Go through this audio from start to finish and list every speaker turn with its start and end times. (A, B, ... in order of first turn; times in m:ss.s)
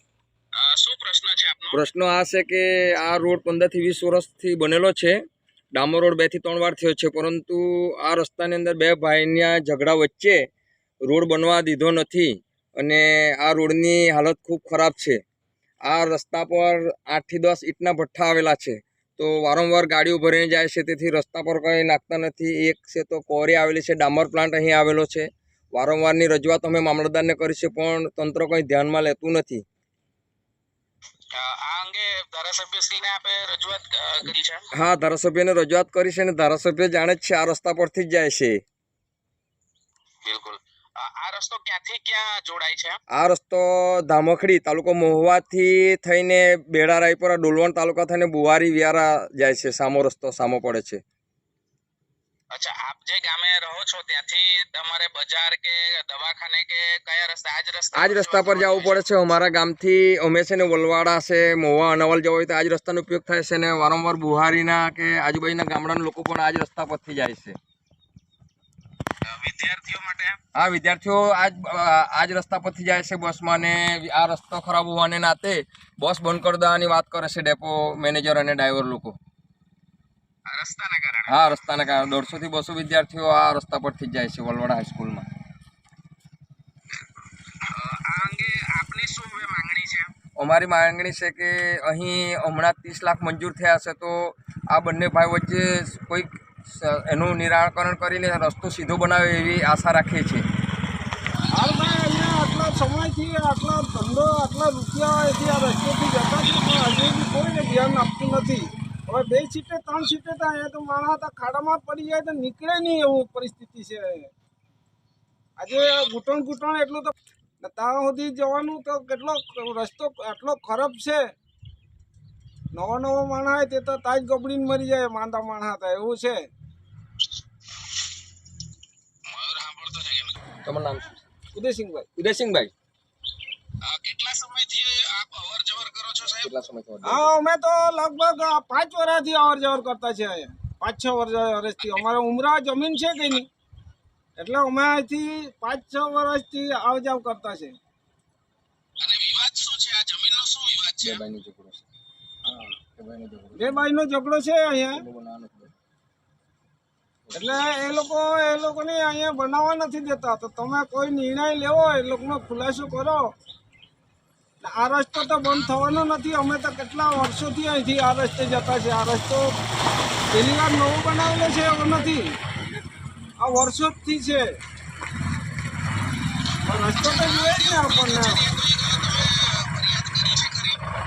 0:00.5-0:01.8 A
0:01.7-0:05.2 B
0:05.7-0:10.4 B
0:11.0-0:15.2 B
0:15.8-0:29.6 B
0:31.3-0:34.6 A
0:34.7-0:38.6 B
0:40.2-0:43.0 A
0:43.1-0:51.0 B
0:52.5-0:59.0 A
0:57.9-1:07.6 B
1:09.2-1:10.4 A
1:10.5-1:19.2 B
1:20.4-1:21.4 A
1:21.3-1:25.3 B
1:27.6-1:30.1 A
1:30.4-1:40.4 B
1:41.5-1:54.3 C
1:41.5-1:42.0 A
1:55.6-2:01.3 C
1:55.7-1:56.1 A
2:02.7-2:06.5 C
2:09.2-2:10.3 A
2:10.6-2:11.2 B
2:11.5-2:12.1 C
2:12.2-2:12.7 B
2:13.8-2:16.5 A
2:16.4-2:17.3 B
2:17.0-2:23.5 C
2:24.4-2:27.8 C
2:29.0-2:31.2 A
2:31.0-2:31.8 B
2:32.4-2:32.7 C
2:33.0-2:33.8 B
2:33.6-2:35.0 C
2:34.9-2:35.7 B
2:37.3-2:37.6 B
2:37.3-2:43.3 C
2:44.6-2:49.5 C
2:45.2-2:45.7 A
2:50.3-2:52.4 C
2:53.4-2:54.6 C
2:56.6-2:58.5 C
2:57.1-3:00.8 A